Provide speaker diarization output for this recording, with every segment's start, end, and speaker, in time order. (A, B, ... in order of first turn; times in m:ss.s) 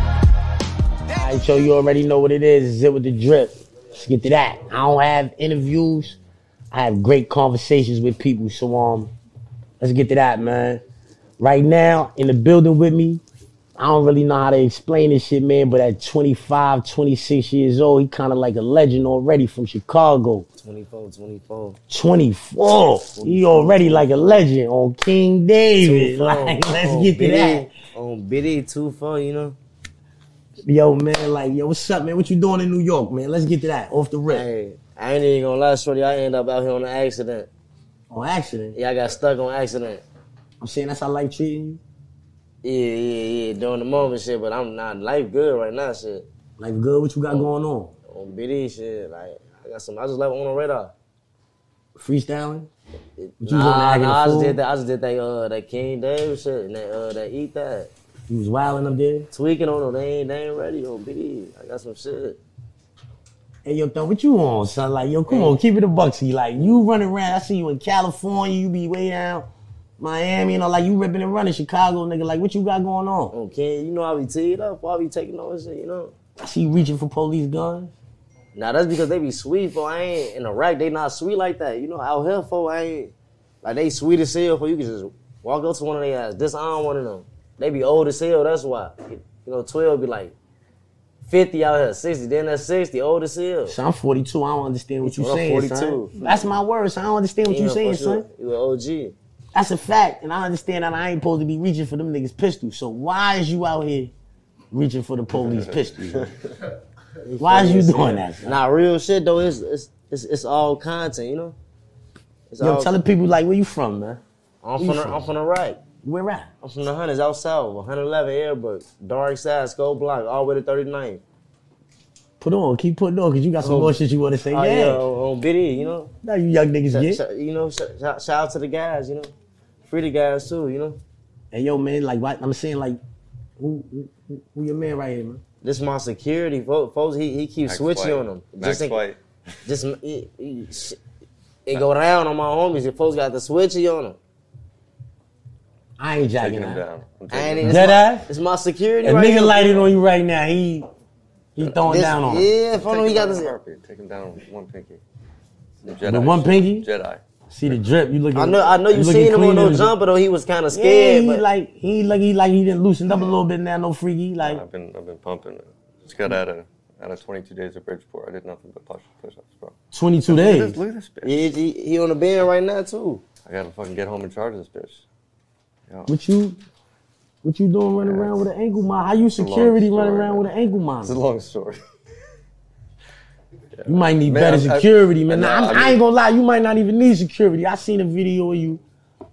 0:01.1-0:06.2 A
0:06.7-0:09.1 A
0:09.8-0:10.8 A
0:11.4-0:13.2 A
0:13.8-0:20.5 A
0:20.6-0:21.8 B
0:21.9-0:27.7 A
0:23.1-0:24.4 B
0:25.8-0:29.6 B
0:30.7-0:34.5 A
0:34.3-0:37.5 B
0:38.1-0:38.8 A
0:38.8-0:40.0 B
0:40.6-0:41.8 A
0:42.6-0:46.3 B
0:46.6-0:47.9 A
0:48.1-0:50.9 B
0:52.0-0:52.7 A
0:53.2-0:57.9 B
0:53.4-0:54.6 A
0:58.3-0:59.3 A
0:59.3-1:02.4 B
1:03.6-1:09.5 A
1:05.3-1:05.6 B
1:10.0-1:13.3 A
1:13.3-1:16.1 B
1:16.4-1:17.9 A
1:18.6-1:30.3 B
1:31.3-1:33.8 B
1:33.7-1:38.2 A
1:35.0-1:36.2 B
1:37.5-1:39.2 B
1:39.5-1:44.1 A
1:44.7-1:46.4 A
1:47.2-1:51.6 B
1:47.4-1:48.6 A
1:52.5-1:52.9 B
1:52.6-1:54.2 A
1:54.6-1:55.8 B
1:54.8-1:55.2 A
1:56.0-1:56.5 A
1:56.6-2:01.2 B
2:02.4-2:05.0 A
2:03.6-2:04.0 B
2:04.5-2:06.1 B
2:06.2-2:07.2 A
2:06.9-2:09.3 B
2:09.9-2:11.0 B
2:11.5-2:13.0 A
2:13.6-2:15.4 A
2:15.6-2:19.0 B
2:17.7-2:19.2 C
2:19.6-2:21.0 B
2:21.7-2:24.2 B
2:26.0-2:26.8 A
2:26.4-2:28.0 C
2:27.3-2:29.9 B
2:27.6-2:28.3 A
2:29.0-2:30.9 A
2:31.6-2:32.5 A
2:31.8-2:33.5 B
2:32.7-2:35.0 C
2:35.8-2:37.8 C
2:36.0-2:36.9 A
2:37.5-2:39.9 A
2:38.3-2:41.4 B
2:40.7-2:44.6 A
2:44.4-2:49.8 C
2:49.9-2:50.8 A
2:50.3-2:51.4 C
2:51.2-2:53.2 B
2:53.5-2:55.0 C
2:56.1-2:56.6 A
2:57.4-3:01.2 A
2:58.0-2:58.4 C
2:59.4-3:00.5 C
3:01.0-3:01.8 C
3:03.8-3:06.0 C
3:03.9-3:08.8 A